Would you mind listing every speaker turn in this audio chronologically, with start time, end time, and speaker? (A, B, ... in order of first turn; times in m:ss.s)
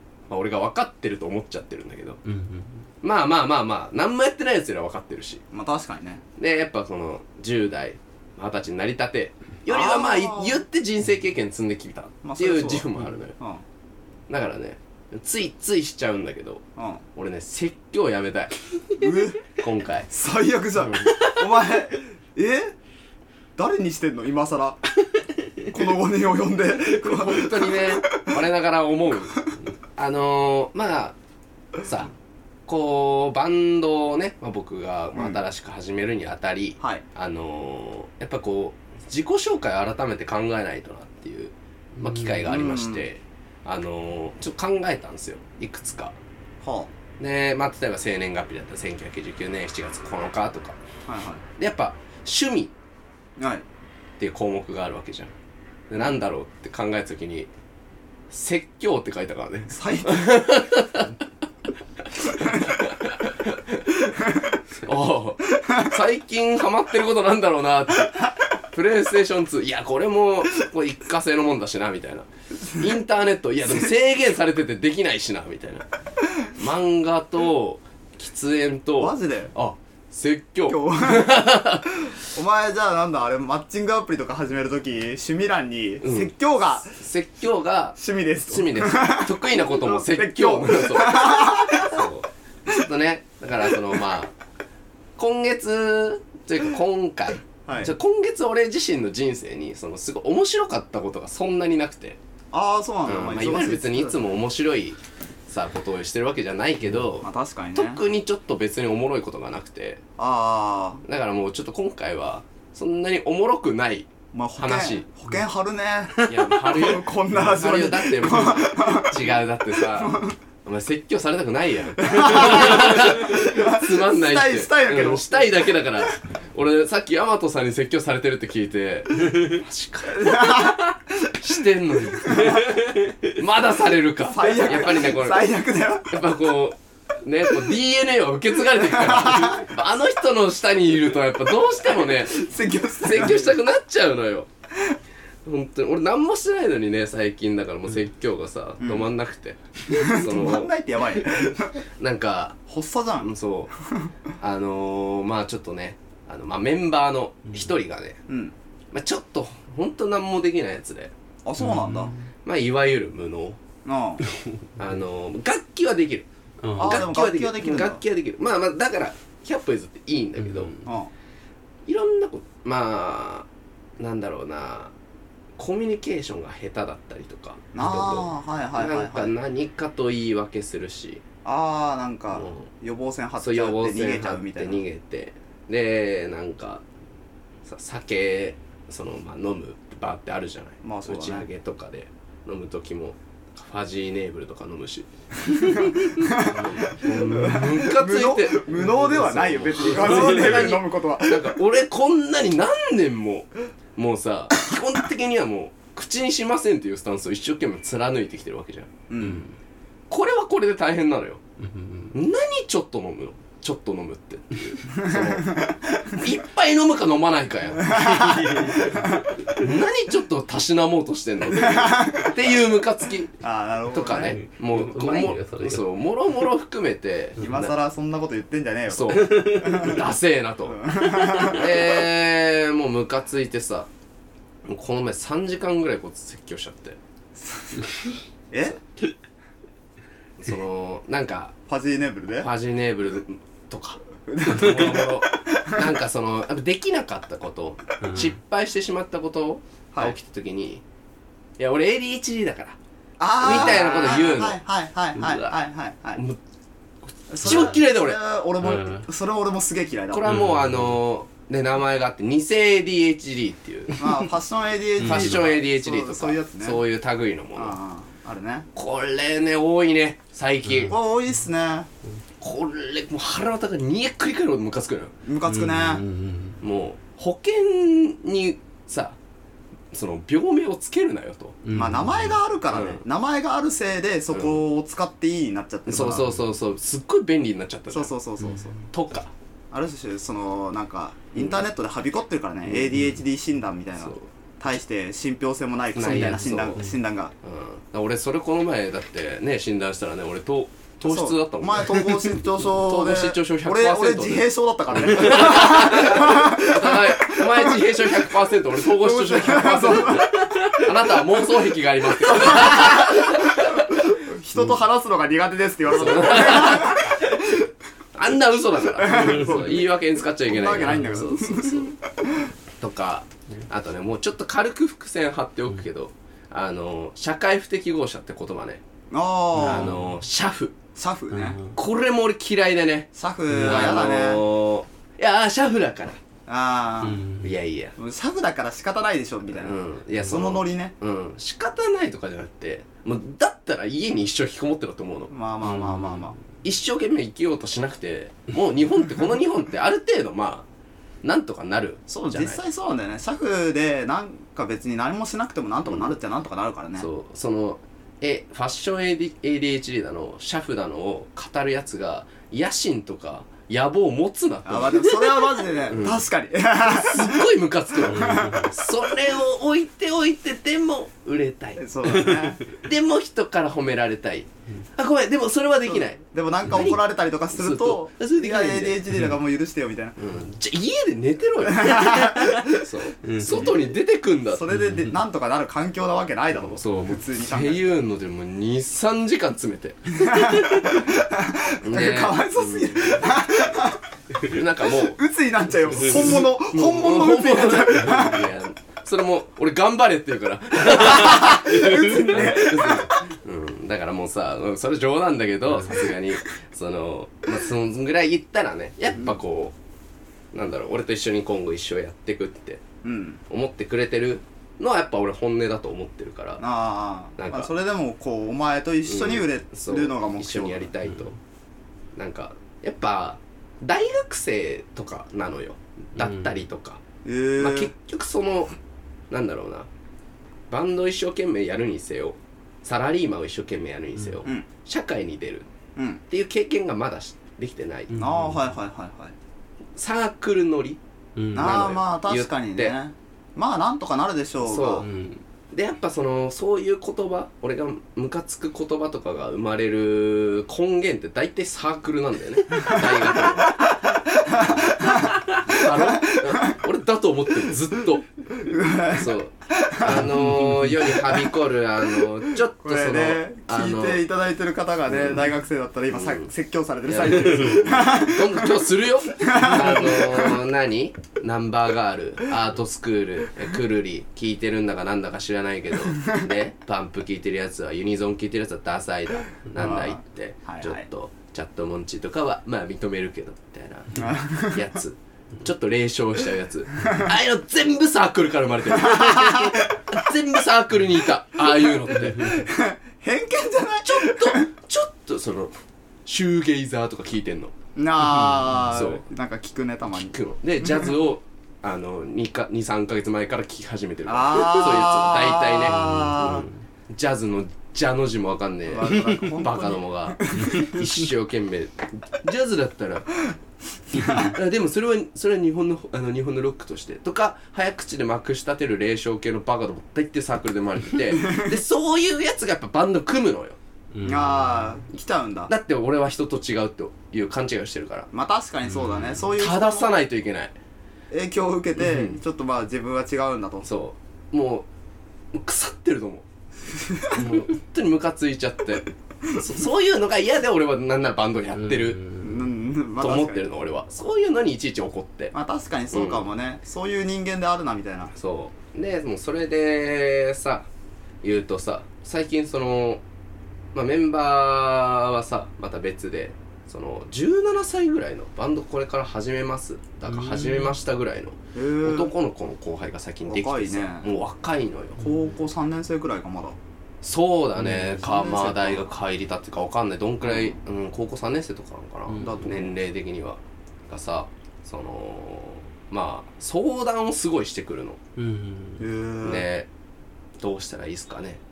0:00.3-0:02.2 A
0:02.2-0:02.8 B
0:03.0-0:05.4 A
0:05.5-0:06.2 C
0:06.4-0:13.4 A
0:09.7-0:10.6 C
0:12.2-0:13.6 C
0:14.3-0:16.6 A
0:16.8-0:17.0 C
0:17.1-0:18.5 A
0:19.0-0:19.4 C
0:19.5-0:20.1 A
0:20.1-0:22.7 C
0:23.6-0:24.8 C
0:25.7-0:28.3 C
0:27.0-0:31.2 A
0:31.8-0:32.1 A
0:32.7-0:46.2 A
0:35.1-0:35.4 C
0:42.4-0:43.0 C
0:46.6-0:46.9 C
0:47.2-0:50.8 A
0:51.1-0:51.4 C
0:51.6-0:52.7 A
0:53.4-0:53.6 C
0:54.2-0:55.3 A
0:55.9-0:57.5 A
0:58.3-1:01.1 A
0:59.7-1:00.5 C
1:02.2-1:04.2 A
1:04.8-1:15.8 A
1:16.4-1:22.2 A
1:19.0-1:19.5 C
1:20.7-1:21.5 C
1:22.1-1:27.0 C
1:26.0-1:28.0 A
1:28.0-1:32.0 C
1:28.5-1:34.3 A
1:35.2-1:42.2 A
1:37.6-1:37.9 C
1:42.5-1:44.3 C
1:43.0-1:50.0 A
1:47.2-1:48.0 C
1:50.2-1:51.0 C
1:51.0-1:55.1 A
1:54.3-2:00.3 C
1:56.2-2:15.5 A
2:02.0-2:05.5 C
2:10.2-2:10.9 C
2:14.2-2:16.1 C
2:16.1-2:22.4 A
2:18.9-2:19.6 C
2:22.0-2:23.5 C
2:23.0-2:24.5 A
2:25.4-2:30.7 A
2:28.8-2:29.1 C
2:29.9-2:31.8 C
2:32.0-2:32.6 A
2:32.7-2:33.3 C
2:33.2-2:33.7 A
2:34.4-2:38.2 A
2:38.3-2:38.5 C
2:38.9-2:41.1 A
2:41.4-2:42.1 C
2:41.6-2:42.3 B
2:42.4-2:43.6 A
2:43.8-2:44.2 C
2:44.8-2:46.2 A
2:46.6-2:47.0 B
2:46.8-2:48.0 C
2:46.8-2:50.8 A
2:50.4-2:50.8 B
2:50.8-2:51.1 C
2:51.9-2:53.5 A
2:54.0-2:54.9 A
2:55.6-3:01.2 A
2:57.7-2:59.3 C
3:01.4-3:04.8 C
3:02.4-3:02.6 A
3:03.4-3:06.8 A
3:07.6-3:28.9 A
3:10.8-3:11.5 C
3:15.6-3:21.6 C
3:29.1-3:29.5 C
3:29.2-3:29.5 B
3:30.1-3:31.4 A
3:31.6-3:32.1 B
3:32.1-3:38.4 A
3:35.0-3:35.8 C
3:37.8-3:39.2 C
3:38.1-3:39.2 B
3:39.5-3:43.3 A
3:41.5-3:42.4 C
3:43.4-3:44.4 C
3:43.9-3:47.7 A
3:44.3-3:45.8 B
3:47.4-3:47.7 B
3:47.4-3:50.0 C
3:48.9-3:53.9 A
3:49.6-3:49.9 B
3:50.7-3:52.0 C
3:54.7-3:57.0 A
3:57.4-3:57.8 C
3:58.5-3:58.8 C
4:00.4-4:01.5 A
4:01.7-4:02.5 C
4:02.4-4:10.8 A
4:04.3-4:05.9 C
4:08.0-4:08.3 B
4:11.6-4:12.8 A
4:13.2-4:16.2 C
4:13.4-4:14.6 A
4:15.2-4:15.5 A
4:17.3-4:20.3 C
4:17.4-4:18.2 A
4:18.6-4:19.0 B
4:20.1-4:24.2 A
4:20.2-4:21.0 B
4:24.0-4:26.8 C
4:25.0-4:27.8 A
4:25.0-4:25.4 B
4:27.6-4:28.7 C
4:28.7-4:31.0 A
4:30.9-4:31.9 C
4:32.4-4:35.1 A
4:35.2-4:36.0 C
4:35.4-4:36.6 B
4:36.6-4:39.2 A
4:39.9-4:41.6 A
4:41.6-4:42.4 B
4:41.7-4:46.3 C
4:42.7-4:43.0 A
4:44.3-4:44.6 A
4:45.9-4:48.1 A
4:47.9-4:48.8 C
4:48.9-4:49.3 A
4:49.7-4:57.3 C
4:52.7-4:52.9 A
4:54.0-4:54.3 A
4:55.9-4:56.8 A
4:56.0-4:56.8 B
4:57.4-5:02.1 A
5:01.0-5:10.7 C
5:02.8-5:14.0 A
5:12.2-5:17.6 C
5:15.9-5:17.6 A
5:18.1-5:21.9 A
5:18.8-5:19.9 C
5:20.4-5:22.5 C
5:20.8-5:21.3 B
5:22.8-5:28.8 A
5:29.1-5:29.9 C
5:29.6-5:30.2 B
5:29.6-5:30.7 A
5:30.9-5:31.6 C
5:31.3-5:31.8 B
5:31.7-5:36.2 A
5:33.1-5:34.4 C
5:33.5-5:33.9 B
5:36.5-5:37.2 C
5:37.0-5:37.5 B
5:37.4-5:37.9 A
5:38.0-5:40.9 C
5:39.6-5:45.3 A
5:45.3-5:46.4 C
5:45.6-5:46.3 B
5:46.6-5:50.6 A
5:51.2-5:52.6 A
5:52.1-5:57.1 C
5:57.0-6:06.2 A
6:04.6-6:07.4 C
6:06.8-6:19.0 A
6:08.0-6:08.7 C
6:08.1-6:08.7 B
6:11.8-6:12.6 C
6:12.2-6:12.6 B
6:15.8-6:20.2 C
6:20.2-6:24.6 A
6:21.6-6:22.8 C
6:23.2-6:23.8 B
6:24.5-6:27.8 C
6:24.7-6:25.1 B
6:26.6-6:30.6 A
6:30.2-6:34.0 C
6:30.3-6:30.8 B
6:31.8-6:33.5 A
6:34.4-6:35.2 A
6:35.0-6:38.5 C
6:36.0-6:49.7 A
6:40.9-6:43.1 C
6:50.5-6:52.8 A
6:53.0-6:53.4 C
6:53.5-6:56.6 A
6:56.6-7:00.9 C
6:57.4-6:57.7 A
6:59.0-7:01.4 A
7:02.2-7:07.0 A
7:06.2-7:06.6 B
7:07.2-7:07.9 C
7:07.6-7:08.7 A
7:09.3-7:09.9 A
7:10.7-7:15.7 A
7:16.0-7:16.2 C
7:16.3-7:18.2 A
7:18.1-7:18.7 B
7:18.1-7:19.3 C
7:20.0-7:21.0 A
7:21.4-7:21.9 B
7:21.5-7:23.0 A
7:21.5-7:25.0 C
7:24.6-7:25.0 A
7:25.0-7:25.4 B
7:25.7-7:33.9 A
7:34.2-7:36.8 C
7:35.0-7:38.3 A
7:38.5-7:40.5 C
7:39.1-7:44.2 A
7:40.1-7:41.2 B
7:42.2-7:48.7 C
7:45.1-7:45.5 A
7:46.1-7:46.5 A
7:47.0-8:12.6 A
7:47.4-7:47.8 B
7:49.4-7:50.6 C
7:59.8-8:01.0 C
8:04.2-8:04.8 C
8:09.0-8:09.6 C
8:12.2-8:14.7 C
8:14.0-8:15.7 A
8:16.2-8:17.7 A
8:18.0-8:21.1 C
8:18.3-8:18.8 B
8:18.9-8:19.2 A
8:20.2-8:33.3 A
8:24.3-8:26.6 C
8:25.9-8:26.7 B
8:28.9-8:31.1 C
8:30.6-8:30.9 B
8:34.1-8:34.5 C
8:34.4-8:43.8 A
8:41.4-8:41.7 C
8:44.1-8:44.9 B
8:44.2-8:45.7 C
8:45.7-8:48.3 A
8:48.3-8:50.1 C
8:48.9-8:49.5 B
8:49.6-8:50.7 A
8:51.3-8:53.9 C
8:52.0-8:52.4 A
8:53.8-8:54.9 A
8:55.5-8:56.4 A
8:57.3-9:02.2 A
9:01.7-9:02.6 B
9:02.4-9:03.6 C
9:03.2-9:05.5 A
9:05.5-9:08.3 C
9:06.1-9:06.4 A
9:08.3-9:10.9 A
9:11.4-9:13.2 A
9:13.9-9:25.2 A
9:20.3-9:21.0 B
9:21.7-9:22.3 C
9:23.4-9:24.3 C
9:25.2-9:26.8 C
9:27.2-9:38.2 A
9:28.1-9:29.0 C
9:32.3-9:32.7 B
9:32.4-9:32.9 C
9:38.4-9:39.1 B
9:39.0-9:39.7 C
9:39.4-9:39.9 A
9:40.6-9:41.6 A